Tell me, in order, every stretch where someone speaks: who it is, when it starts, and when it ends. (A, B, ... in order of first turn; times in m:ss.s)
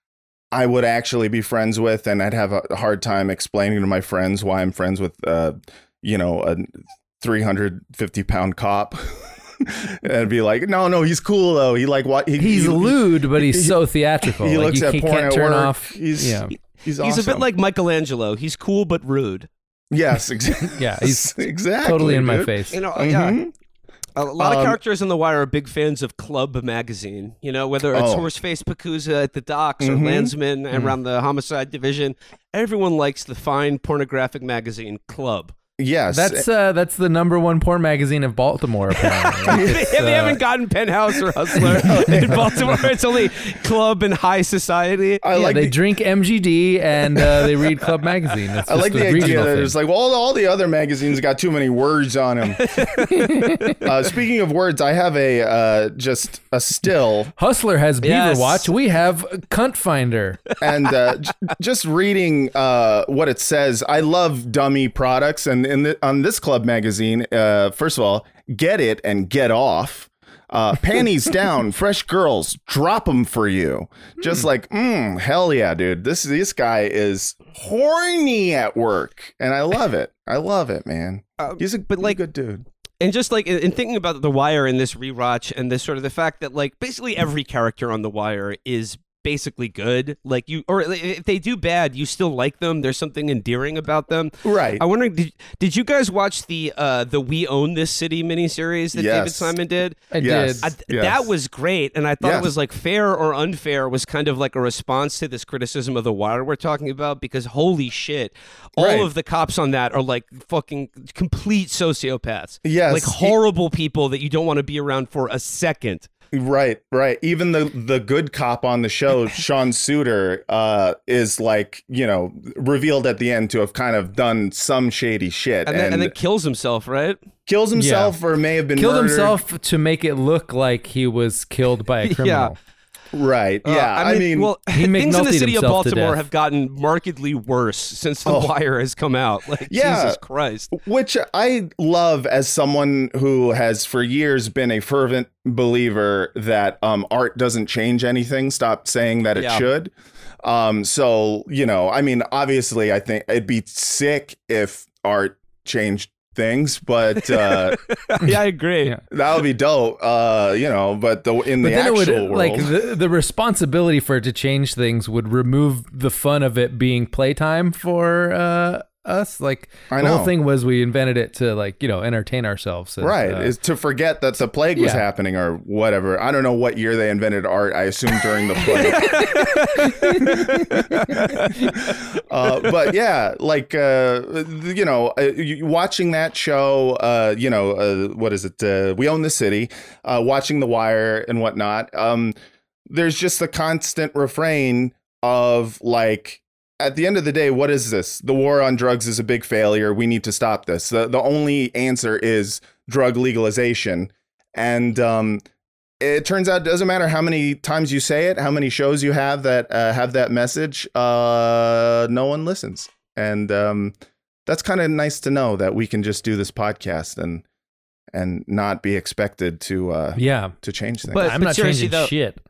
0:00.5-0:17.5 A
0:12.4-0:16.5 B
0:17.0-0:19.5 C
0:19.9-0:23.5 A
0:20.7-0:22.8 B
0:22.7-0:23.4 C
0:24.2-0:35.6 C
0:24.4-0:24.8 A
0:27.9-0:28.3 A
0:29.8-0:30.3 A
0:30.7-0:31.0 B
0:35.8-0:36.5 A
0:36.1-0:40.4 B
0:39.0-0:45.2 C
0:39.5-0:39.9 A
0:41.7-0:42.8 A
0:45.2-0:45.8 A
0:45.3-0:49.8 B
0:48.7-0:52.6 A
0:52.6-0:53.8 C
0:53.2-0:53.8 B
0:53.8-0:57.3 A
0:57.4-1:00.4 B
0:58.0-0:58.7 C
1:00.6-1:22.7 A
1:21.4-1:22.2 C
1:23.0-1:40.1 C
1:34.4-1:34.8 A
1:38.9-1:39.6 A
1:40.1-1:40.7 B
1:40.2-1:41.3 A
1:40.6-1:56.1 C
1:42.2-1:42.5 A
1:48.8-1:49.1 A
1:52.6-1:53.4 A
1:56.3-2:06.2 A
2:05.6-2:07.2 C
2:07.5-2:09.4 A
2:07.8-2:08.2 B
2:08.7-2:12.6 B
2:12.0-2:12.5 C
2:13.1-2:14.5 A
2:13.6-2:20.7 C
2:14.7-2:16.2 B
2:18.2-2:18.5 A
2:19.7-2:20.2 A
2:20.7-2:37.8 A
2:29.4-2:29.7 C
2:37.2-2:39.0 C
2:38.2-2:39.0 B
2:39.1-2:42.8 A
2:41.6-2:53.5 B
2:49.9-2:50.3 A
2:53.0-2:59.4 A
2:54.8-2:55.0 B
2:58.8-3:01.8 C
2:58.9-2:59.3 B
2:59.9-3:01.1 B
3:00.2-3:00.5 A
3:01.9-3:12.3 A
3:12.9-3:25.4 A
3:26.0-3:34.0 A
3:34.5-3:37.4 A
3:38.1-3:41.4 A
3:40.2-3:40.6 B
3:41.1-3:42.4 B
3:41.1-3:42.1 C